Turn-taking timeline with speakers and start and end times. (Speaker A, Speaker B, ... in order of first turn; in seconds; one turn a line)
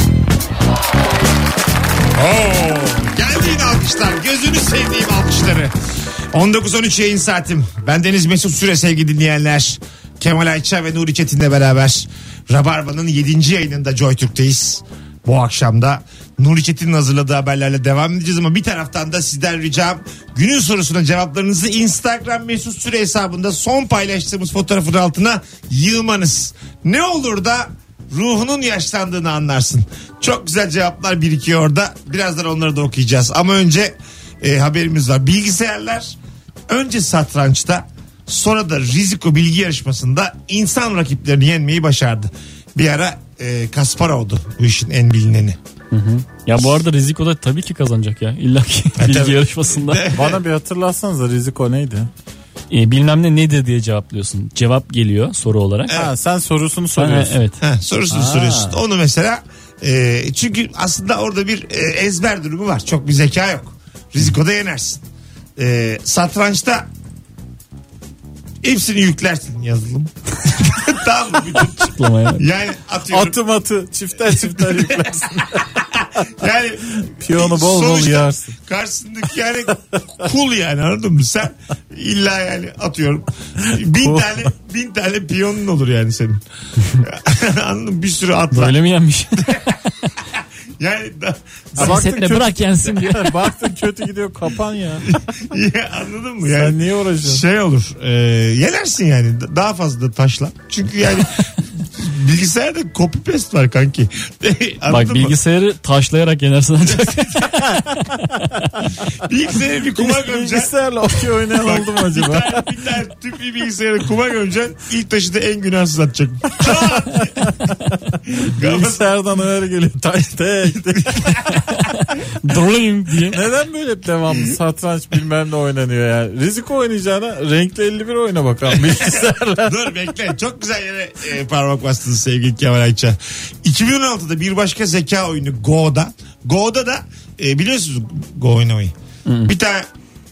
Speaker A: 2.1-5.7
Speaker A: 6.3-36.1
Speaker A: 36.7-45.6
Speaker B: 45.9-50.0
Speaker A: 49.0-50.4
Speaker C: 50.1-52.1
Speaker B: 52.7-56.0
Speaker C: 55.9-57.4
Speaker B: 57.0-57.6
Speaker A: 57.6-65.0
Speaker C: 58.1-58.8
Speaker A: 65.6-66.9
Speaker A: 68.6-73.4
Speaker B: 71.5-72.4
Speaker C: 73.1-78.5
Speaker A: 74.3-86.4
Speaker C: 83.6-84.5
Speaker A: 87.0-88.8
Speaker B: 88.5-89.6
Speaker A: 89.4-92.0
Speaker C: 91.7-95.1
Speaker B: 91.8-93.5
Speaker A: 95.0-105.4
Speaker C: 96.4-97.4
Speaker B: 104.9-108.6
Speaker A: 106.8-107.7
Speaker C: 108.0-108.9
Speaker A: 109.1-110.7
Speaker C: 109.9-112.6
Speaker A: 111.6-117.6
Speaker A: 118.3-119.0
Speaker C: 118.5-121.4
Speaker A: 120.9-121.5
Speaker B: 121.5-123.4
Speaker C: 123.3-129.9
Speaker A: 128.7-138.9
Speaker B: 139.2-139.5
Speaker A: 139.4-139.9